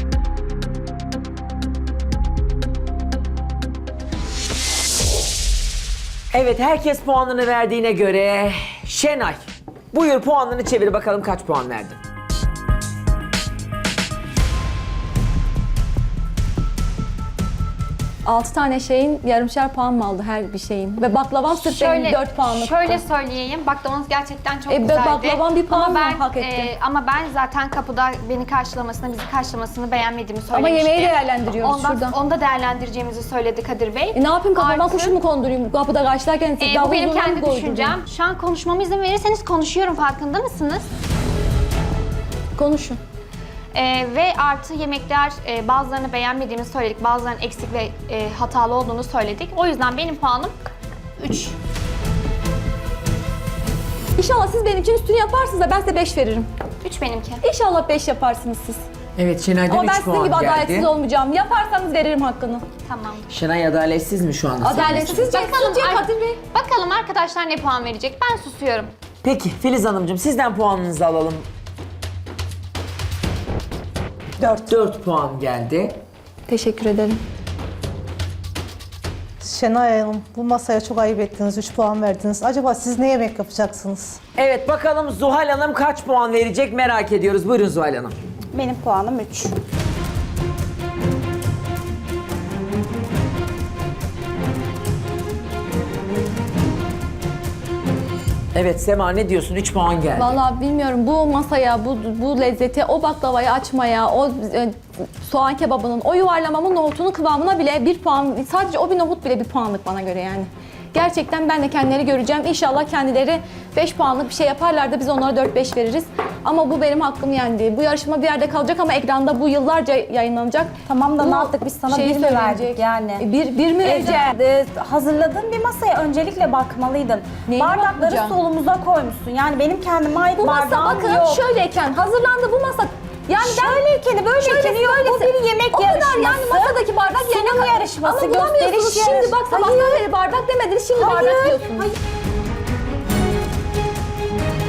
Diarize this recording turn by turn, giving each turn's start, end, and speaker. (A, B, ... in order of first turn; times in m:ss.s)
0:06.3-0:09.4 A
0:09.9-0:12.0 A
0:18.2-0:23.0 B
0:21.6-0:35.2 C
0:24.7-0:26.7 B
0:30.5-0:32.2 B
0:34.1-0:38.0 B
0:36.6-0:40.9 C
0:42.6-0:43.0 B
0:43.7-0:50.6 C
0:51.2-0:51.6 C
0:54.2-0:56.5 B
0:56.8-0:57.4 C
0:57.4-0:58.8 B
0:59.2-1:00.9 A
0:59.7-1:02.6 B
1:02.9-1:03.2 C
1:03.3-1:05.2 A
1:04.6-1:06.4 B
1:05.0-1:08.9 C
1:09.2-1:11.5 A
1:14.6-1:16.0 A
1:16.5-1:17.2 B
1:19.4-1:24.2 D
1:24.4-1:28.2 A
1:28.5-1:29.6 E
1:38.5-1:40.4 A
1:40.2-2:04.4 B
2:00.8-2:03.2 E
2:03.8-2:11.5 E
2:07.5-2:08.4 B
2:10.3-2:13.8 B
2:13.4-2:20.0 E
2:14.4-2:21.9 B
2:21.0-2:21.9 E